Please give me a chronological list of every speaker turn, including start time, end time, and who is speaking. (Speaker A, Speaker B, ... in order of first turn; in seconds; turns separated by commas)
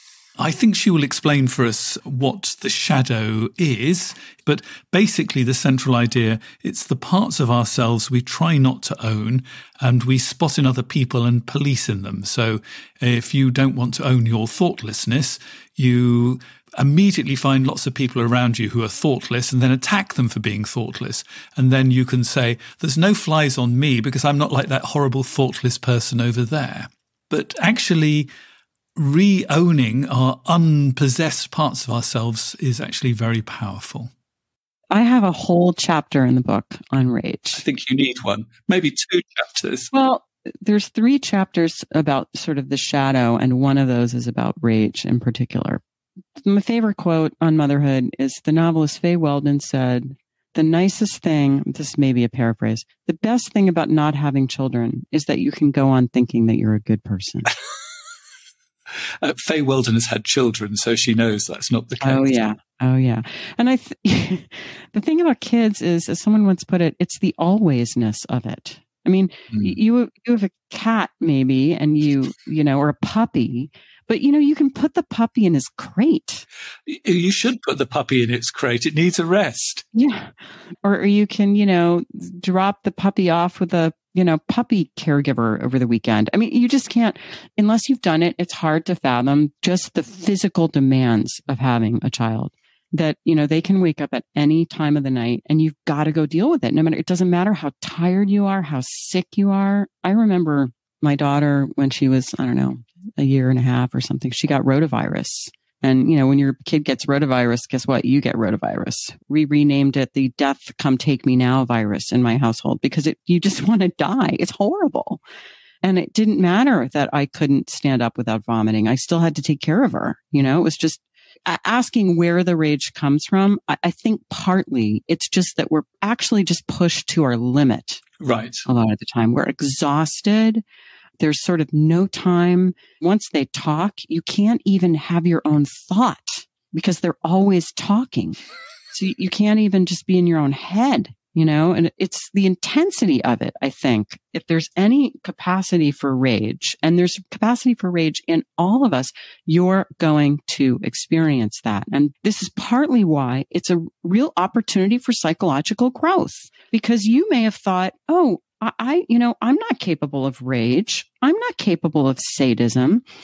Speaker A: 0.4-28.3, Speaker A: 29.0-34.1, Speaker B: 34.9-37.6, Speaker A: 37.5-39.9, Speaker B: 39.9-45.8, Speaker B: 46.4-57.5, Speaker A: 59.2-62.4, Speaker B: 62.0-76.4, Speaker A: 69.5-69.8, Speaker A: 76.9-79.8, Speaker B: 79.9-115.2, Speaker B: 115.8-128.0, Speaker A: 128.2-128.6, Speaker B: 128.7-130.6, Speaker B: 131.2-138.4, Speaker B: 138.9-163.0